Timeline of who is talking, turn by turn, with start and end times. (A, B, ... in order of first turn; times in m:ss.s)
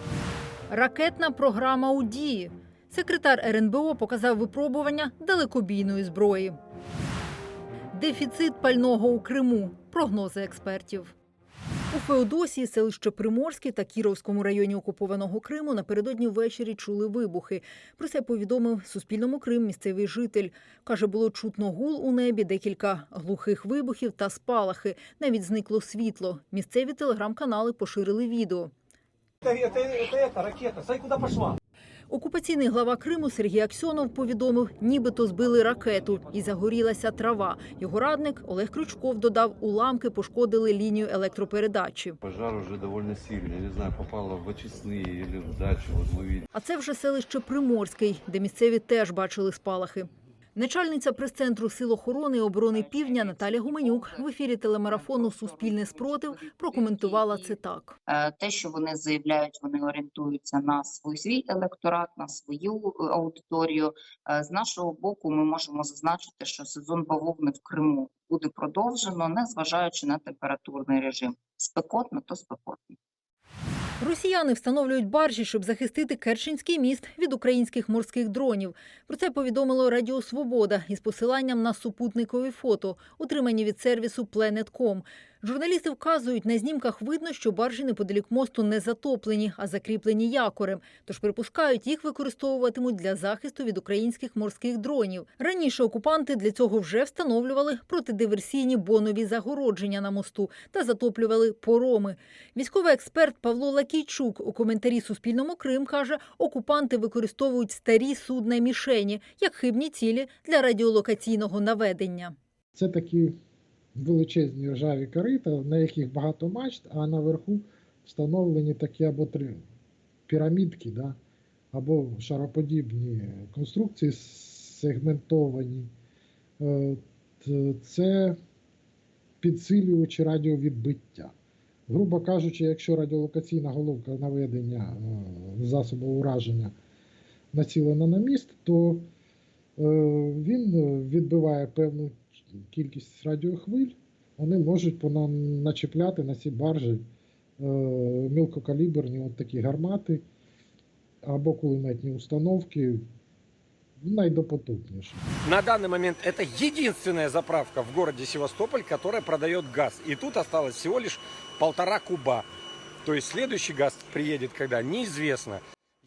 0:00.7-0:06.6 A
0:07.9-0:11.1 A
0:11.9-0:28.7 A
0:29.4-0:31.5 B
0:32.1-0:42.2 A
0:42.2-0:46.5 C
0:46.5-0:58.0 A
0:52.7-1:11.7 D
1:14.0-1:52.3 A
1:52.7-1:53.4 E
1:53.9-1:59.6 E
2:00.3-2:01.2 E
2:01.7-2:05.9 E
2:06.6-2:08.4 E
2:09.4-2:11.3 E
2:11.9-2:16.7 E
2:17.5-2:19.1 E
2:19.8-2:27.0 E
2:27.6-2:30.2 E
2:31.2-2:33.1 E
2:34.0-2:35.2 E
2:35.4-2:42.4 F
2:43.0-2:45.6 F